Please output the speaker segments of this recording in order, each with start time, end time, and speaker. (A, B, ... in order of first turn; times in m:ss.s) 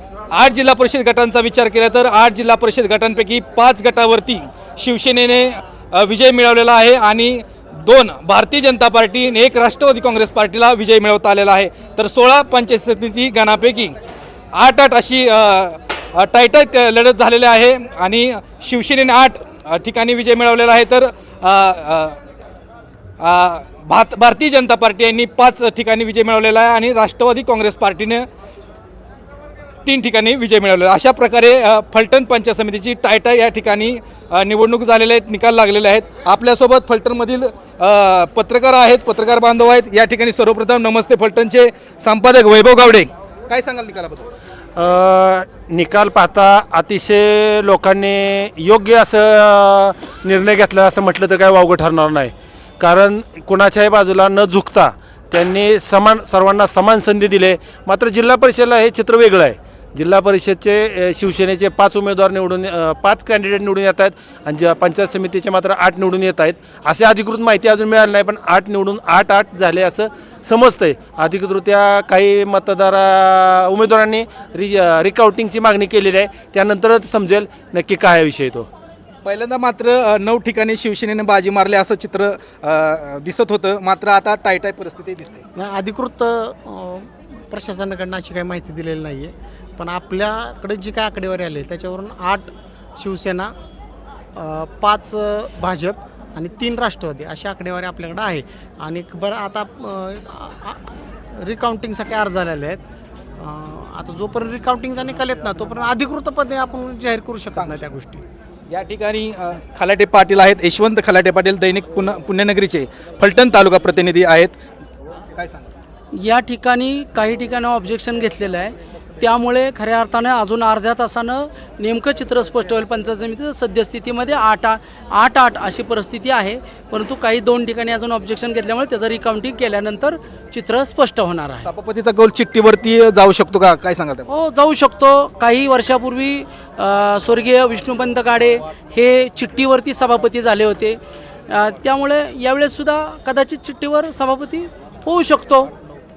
0:00.3-0:14.0 A
0:14.5-0:22.2 A
0:23.2-0:28.3 A
0:29.9-0:44.3 A
0:44.8-0:52.3 B
0:52.8-1:18.7 B
1:19.2-1:25.4 A
1:25.6-1:33.5 C
1:34.4-1:42.8 C
1:43.4-1:48.2 C
1:47.5-1:47.9 A
1:48.7-1:54.6 A
1:55.3-1:55.7 A
1:56.1-2:11.7 D
2:11.6-2:14.3 A
2:14.3-2:25.7 D